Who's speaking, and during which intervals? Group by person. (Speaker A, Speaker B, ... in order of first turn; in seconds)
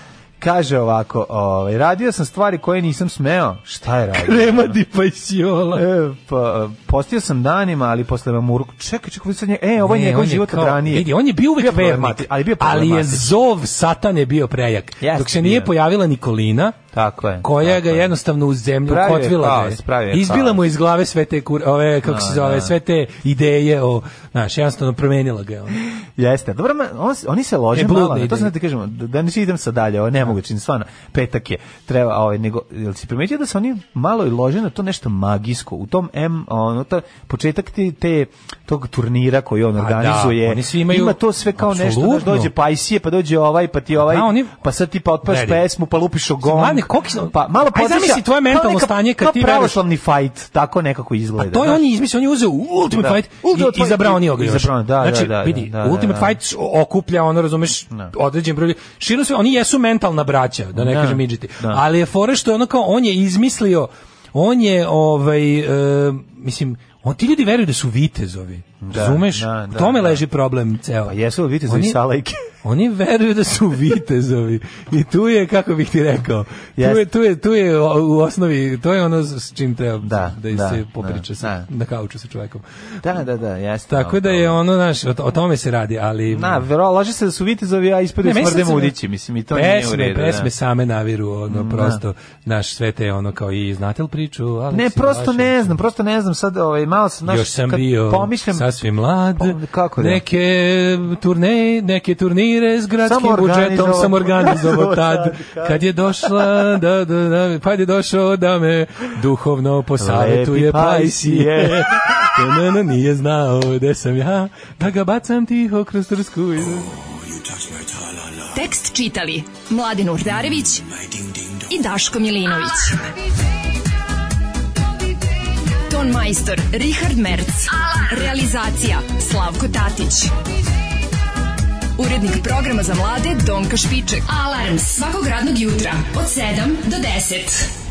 Speaker A: 0.4-4.8, 5.7-13.3, 15.0-15.7, 16.9-18.1, 18.9-20.6, 22.0-22.7, 26.0-51.8, 52.9-56.4, 60.7-61.8, 68.8-70.2, 71.0-72.4, 76.8-77.0, 80.0-81.7, 83.0-84.6, 86.3-90.5, 91.5-92.0, 94.7-100.2, 103.0-106.7, 110.0-112.6
Speaker B: 4.1-5.8, 9.8-16.8, 17.4-25.8, 27.7-28.5, 39.8-42.5, 44.0-44.5, 45.2-45.6, 46.4-49.8, 51.4-72.0, 72.6-82.7, 83.9-86.6, 88.2-89.0, 89.5-95.8, 97.3-118.3, 121.0-121.5
Speaker C: 118.5-120.8, 121.7-123.1, 125.8-130.3, 131.9-137.7